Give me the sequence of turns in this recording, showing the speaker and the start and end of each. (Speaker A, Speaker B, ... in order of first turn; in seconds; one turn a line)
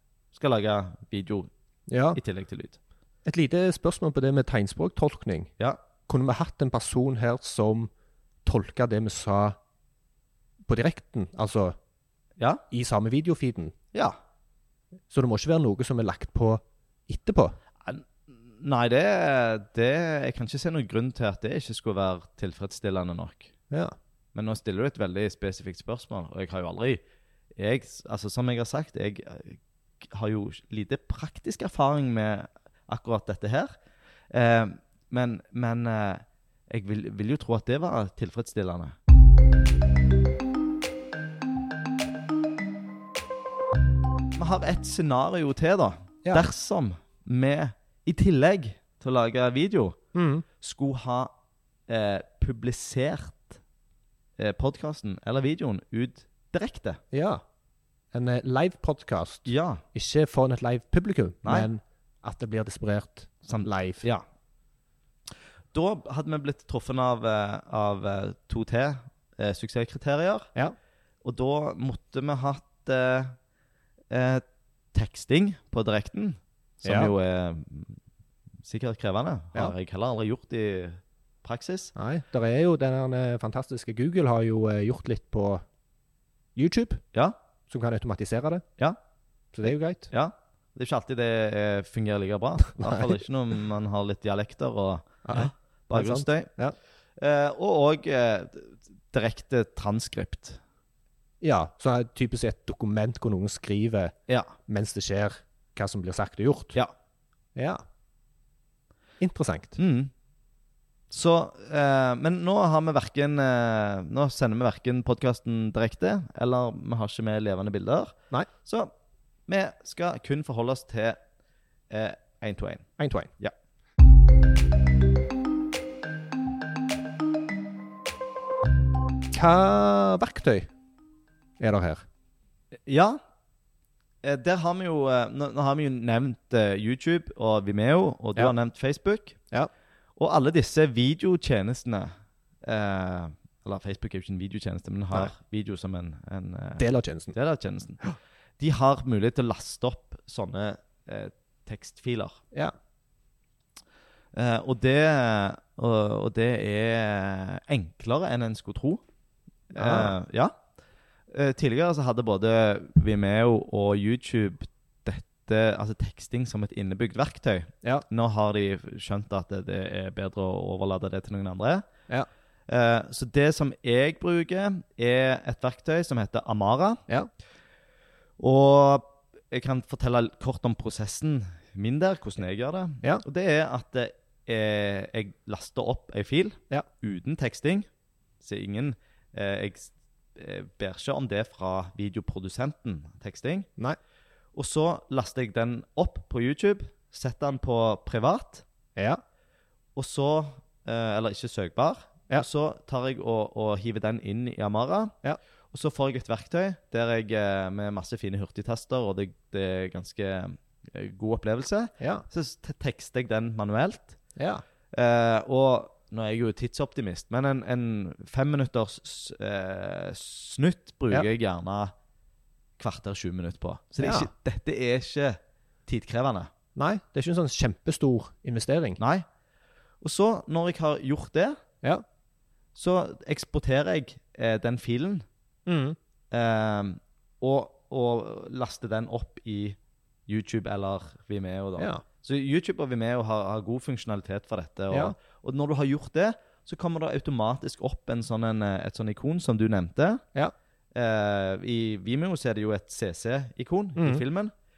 Speaker A: 0.3-1.5
Speaker B: 1.9-2.2
Speaker A: 2.1-2.8
Speaker B: 3.2-5.5
Speaker B: 6.1-7.9
Speaker B: 8.4-9.6
Speaker B: 10.7-11.8
Speaker B: 12.7-13.7
Speaker B: 15.1-17.6
Speaker A: 17.9-23.5
Speaker B: 23.7-23.9
Speaker A: 24.4-27.0
Speaker A: 27.6-33.7
Speaker A: 34.3-39.0
Speaker A: 44.4-50.0
Speaker B: 50.1-50.5
Speaker A: 50.6-51.3
Speaker A: 51.9-53.6
Speaker A: 54.4-57.0
Speaker B: 57.1-57.4
Speaker B: 58.1-64.0
Speaker A: 59.5-59.8
Speaker A: 63.5-64.2
Speaker A: 65.7-70.5
Speaker A: 71.2-73.3
Speaker A: 74.1-78.0
Speaker B: 76.8-77.1
Speaker A: 78.7-81.9
Speaker B: 82.0-85.7
Speaker B: 86.5-87.0
Speaker B: 87.7-88.6
Speaker B: 89.5-90.1
Speaker A: 90.1-96.5
Speaker B: 92.8-93.2
Speaker B: 95.2-96.8
Speaker A: 97.2-100.6
Speaker B: 101.4-104.2
Speaker A: 104.3-104.5
Speaker B: 104.7-106.8
Speaker B: 107.5-107.8
Speaker B: 109.2-109.8
Speaker A: 109.8-110.1
Speaker A: 111.1-118.9
Speaker A: 119.5-121.2
Speaker A: 121.9-123.5
Speaker B: 123.0-123.3
Speaker B: 129.3-130.7
Speaker B: 131.6-132.0
Speaker A: 132.9-133.2
Speaker A: 134.2-139.4
Speaker A: 140.2-142.1
Speaker A: 142.6-148.0
Speaker B: 146.8-147.3
Speaker A: 148.6-152.4
Speaker A: 154.3-159.0
Speaker A: 159.7-160.5
Speaker B: 159.8-160.2
Speaker A: 161.3-171.9
Speaker A: 172.7-177.0
Speaker A: 178.4-187.9
Speaker A: 188.4-193.7
Speaker A: 194.6-198.7
Speaker B: 199.0-199.2
Speaker A: 200.0-205.2
Speaker A: 205.7-214.2
Speaker B: 212.0-212.2
Speaker B: 214.4-214.6
Speaker A: 214.9-221.9
Speaker A: 222.8-226.5
Speaker B: 224.0-224.3
Speaker B: 226.8-229.0
Speaker A: 229.0-229.2
Speaker A: 230.0-231.6
Speaker A: 232.8-235.3
Speaker B: 235.7-236.0
Speaker A: 236.3-250.2
Speaker B: 241.8-242.0
Speaker A: 250.9-254.5
Speaker B: 254.0-254.2